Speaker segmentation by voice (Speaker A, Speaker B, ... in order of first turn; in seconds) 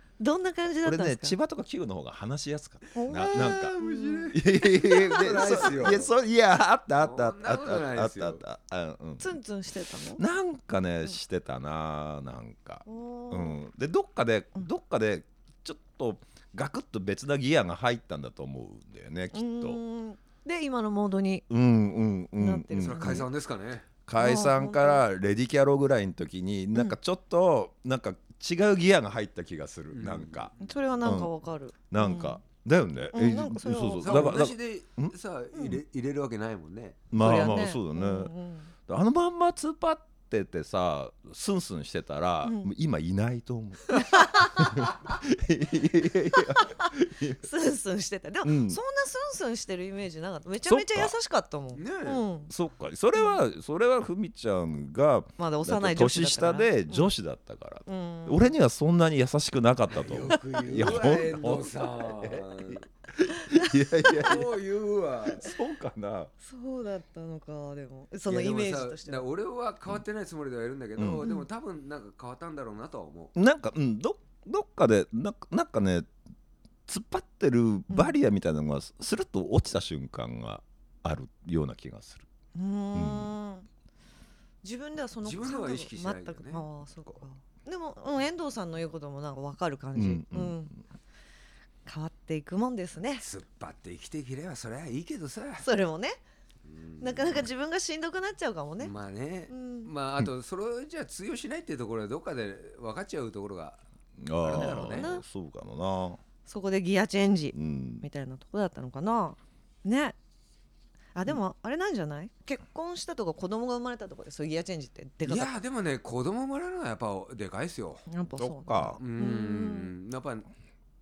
Speaker A: 0.2-1.4, 2.9-5.5, 9.2-10.2, 12.8-13.6, 19.3-21.4, 22.4-23.3, 24.2-25.0, 30.6-32.4, 33.1-34.4, 37.1-38.7, 43.9-44.9, 46.3-52.5, 55.4-57.1, 57.9-58.5, 63.5-64.0, 66.4-69.2, 77.9-78.1, 82.5-83.7, 84.6-90.7, 91.8-93.2, 95.6-96.2, 97.0-98.9, 99.5-99.9, 104.5-105.2, 106.5-110.2, 111.1-115.5, 118.1-119.9
Speaker B: 0.8-9.4, 10.1-19.8, 21.5-23.2, 24.1-31.3, 31.9-35.1, 37.1-38.3, 38.9-47.5, 48.4-48.8, 50.6-51.1, 52.5-64.5, 65.3-66.3, 71.0-71.2, 73.3-76.1, 76.9-82.3, 82.9-83.3, 89.9-90.8, 104.2-106.2, 107.5-108.0, 118.4-119.0
Speaker C: 3.5-4.2, 4.9-6.1, 7.0-8.4, 22.8-23.9, 29.9-30.7, 34.0-37.0, 51.7-52.2, 59.9-62.8, 64.1-65.5, 68.3-73.3, 85.2-86.7, 93.2-95.7, 96.6-97.5, 98.8-103.8, 104.4-105.1, 115.2-118.0, 119.0-120.5